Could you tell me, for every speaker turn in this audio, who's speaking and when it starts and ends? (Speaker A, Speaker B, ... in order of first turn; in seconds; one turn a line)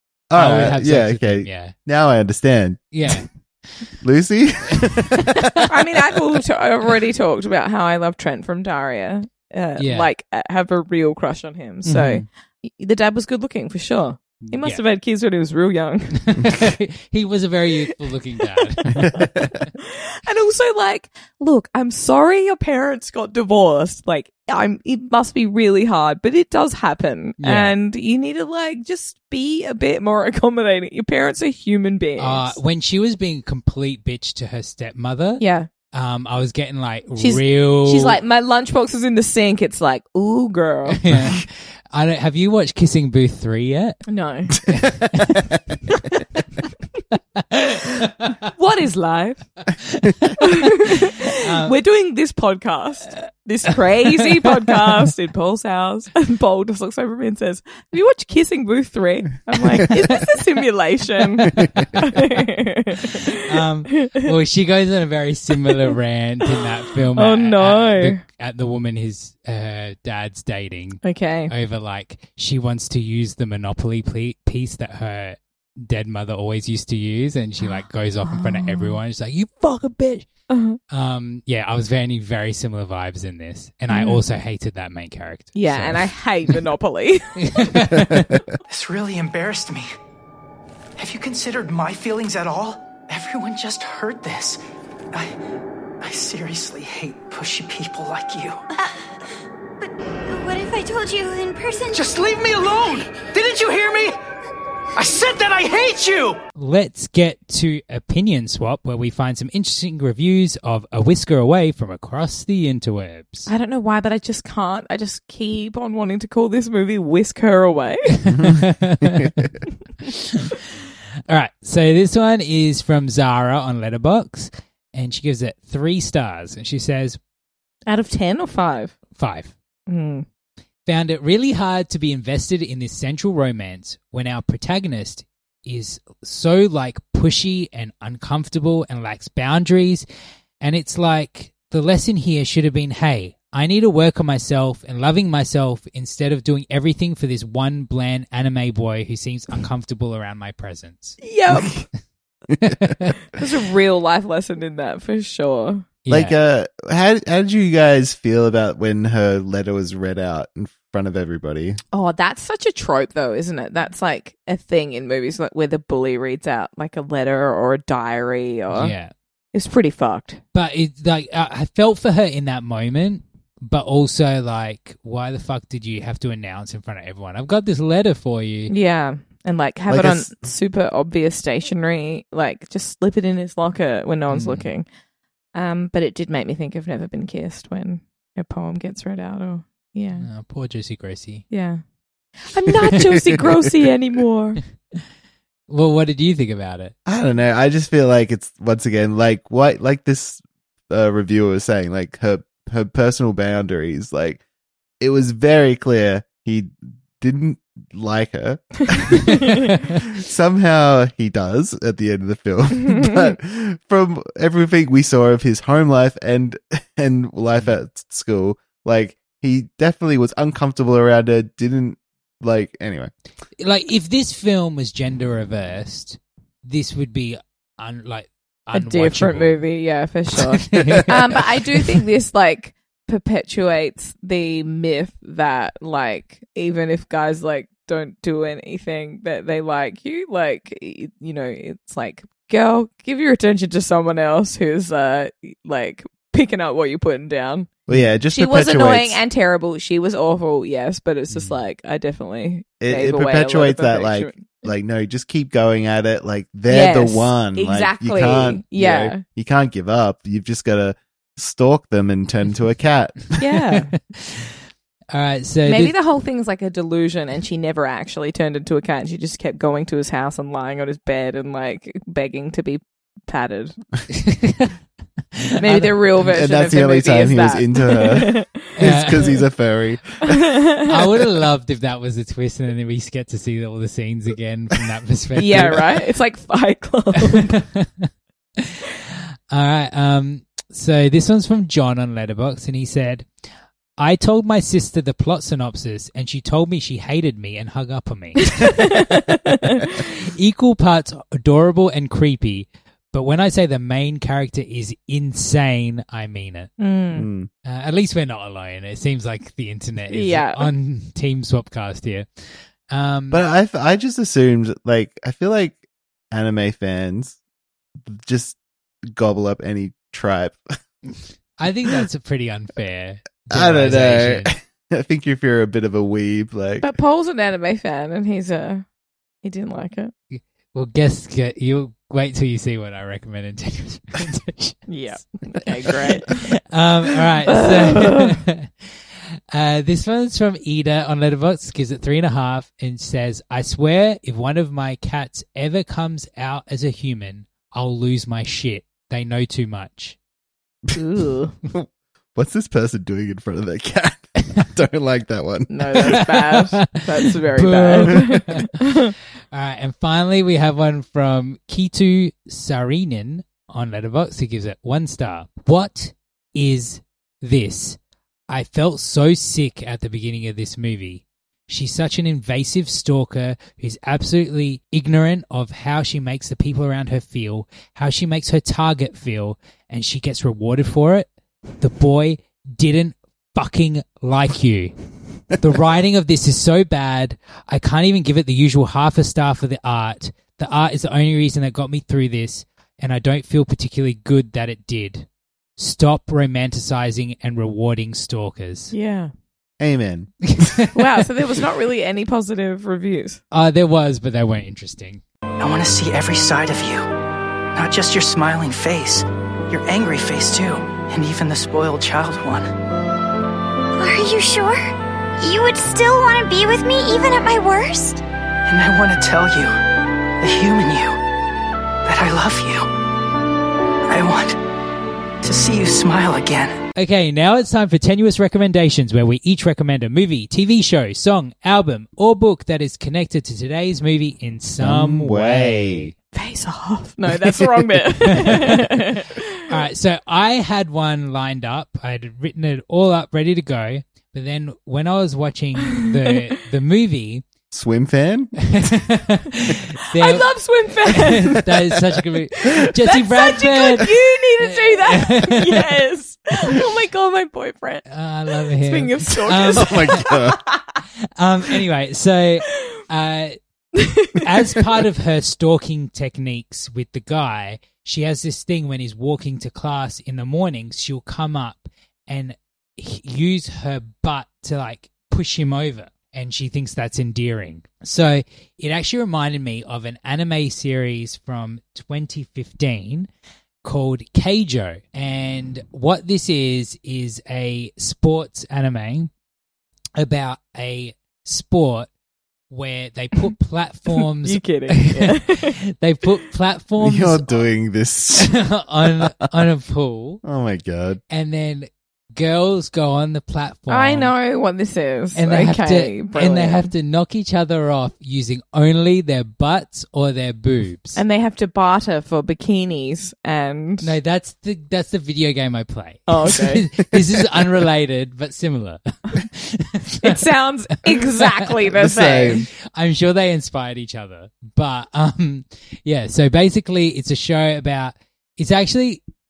Speaker A: 0.3-3.2
Speaker B: 0.3-1.8
Speaker B: 2.9-3.9
Speaker A: 4.0-5.7
Speaker B: 4.8-5.6
Speaker C: 5.7-16.3
Speaker B: 9.8-10.1
Speaker B: 11.8-12.2
Speaker B: 14.4-14.8
Speaker B: 16.1-19.7
Speaker A: 19.1-19.5
Speaker C: 19.8-32.6
Speaker B: 27.4-27.8
Speaker B: 32.2-38.2
Speaker C: 35.4-35.7
Speaker C: 37.2-41.0
Speaker B: 41.0-44.1
Speaker A: 41.1-41.4
Speaker C: 44.1-44.6
Speaker B: 44.6-45.6
Speaker A: 44.7-45.5
Speaker B: 47.4-48.4
Speaker C: 48.4-49.5
Speaker B: 49.8-51.8
Speaker C: 50.4-64.2
Speaker B: 53.7-55.1
Speaker B: 61.4-62.2
Speaker B: 63.1-80.3
Speaker C: 65.6-65.9
Speaker C: 67.2-68.2
Speaker C: 71.0-71.5
Speaker C: 78.3-79.0
Speaker C: 80.5-80.8
Speaker B: 80.9-86.6
Speaker C: 83.9-84.2
Speaker C: 85.5-87.4
Speaker B: 87.4-88.4
Speaker D: 88.7-89.9
Speaker D: 91.0-94.6
Speaker D: 95.1-95.4
Speaker D: 96.0-98.6
Speaker E: 100.3-102.0
Speaker D: 101.9-104.2
Speaker D: 105.0-106.4
Speaker B: 106.6-113.5
Speaker C: 113.5-118.1
Speaker B: 118.2-119.5
Speaker A: 118.3-119.5
Speaker B: 120.0-120.7
Speaker B: 121.3-127.2
Speaker C: 127.9-129.0
Speaker B: 129.2-129.5
Speaker C: 129.9-130.3
Speaker B: 130.9-140.1
Speaker B: 140.6-151.2
Speaker C: 151.2-151.9
Speaker B: 152.6-153.1
Speaker C: 153.3-155.9
Speaker B: 156.1-156.3
Speaker A: 156.1-161.8
Speaker C: 161.9-168.9
Speaker B: 168.7-169.1
Speaker C: 169.5-170.4
Speaker B: 170.5-178.7
Speaker C: 178.7-184.9
Speaker A: 179.9-180.3
Speaker B: 184.3-184.7
Speaker C: 185.6-190.3
Speaker B: 190.2-191.5
Speaker C: 191.5-191.8
Speaker C: 192.4-194.6
Speaker B: 195.7-196.9
Speaker A: 197.1-204.4
Speaker A: 205.0-223.1
Speaker B: 223.6-229.6
Speaker C: 228.7-247.7
Speaker B: 230.6-231.4
Speaker A: 247.9-249.2
Speaker C: 248.3-254.6
Speaker B: 251.3-251.6
Speaker A: 252.8-263.4
Speaker C: 256.7-259.2
Speaker C: 263.4-263.9
Speaker B: 264.1-264.6
Speaker B: 265.1-265.9
Speaker C: 265.6-273.8
Speaker B: 274.1-274.8
Speaker B: 275.4-276.2
Speaker C: 275.6-278.7
Speaker A: 276.2-280.4
Speaker B: 278.8-279.4
Speaker C: 280.3-281.0
Speaker B: 280.9-285.9
Speaker C: 285.4-287.6
Speaker B: 287.2-293.3
Speaker B: 294.0-306.7
Speaker C: 298.5-299.9
Speaker C: 306.8-307.3
Speaker A: 307.1-307.5
Speaker B: 307.6-313.4
Speaker C: 310.1-310.7
Speaker A: 313.3-317.4
Speaker A: 318.0-318.6
Speaker A: 319.1-320.6
Speaker B: 321.6-324.5
Speaker A: 323.5-326.9
Speaker C: 326.8-328.9
Speaker C: 329.4-330.1
Speaker B: 330.3-334.9
Speaker C: 334.9-336.5
Speaker B: 336.3-339.0
Speaker C: 337.5-338.4
Speaker B: 339.5-350.2
Speaker C: 350.9-351.6
Speaker A: 351.7-356.2
Speaker C: 355.7-359.1
Speaker B: 356.1-359.0
Speaker B: 359.5-368.0
Speaker B: 368.5-381.3
Speaker B: 381.8-385.0
Speaker B: 385.5-398.9
Speaker C: 398.9-399.3
Speaker A: 399.8-400.7
Speaker B: 400.5-401.0
Speaker C: 400.9-403.4
Speaker B: 403.5-405.2
Speaker D: 405.6-407.1
Speaker D: 407.8-412.7
Speaker E: 414.0-418.2
Speaker D: 418.7-419.7
Speaker D: 420.4-421.2
Speaker D: 422.1-422.9
Speaker D: 424.1-424.6
Speaker D: 425.4-426.8
Speaker B: 427.0-436.1
Speaker A: 434.8-436.1
Speaker C: 436.3-439.6
Speaker B: 438.3-438.9
Speaker B: 439.7-447.4
Speaker A: 447.7-448.6
Speaker B: 448.6-450.5
Speaker C: 450.1-451.7
Speaker B: 451.1-456.0
Speaker C: 452.8-460.8
Speaker B: 458.1-460.3
Speaker A: 459.7-460.6
Speaker B: 461.4-463.6
Speaker C: 464.0-464.5
Speaker B: 464.4-483.3
Speaker B: 483.8-489.3
Speaker B: 490.2-492.1
Speaker B: 492.7-497.7
Speaker C: 494.4-495.8
Speaker A: 497.0-499.3
Speaker B: 498.4-500.4
Speaker A: 500.4-501.2
Speaker B: 501.3-504.3
Speaker C: 503.9-506.9
Speaker B: 505.4-511.2
Speaker C: 511.2-514.1
Speaker B: 514.0-520.4
Speaker C: 516.3-516.9
Speaker C: 520.2-522.6
Speaker A: 521.9-522.7
Speaker B: 522.9-529.2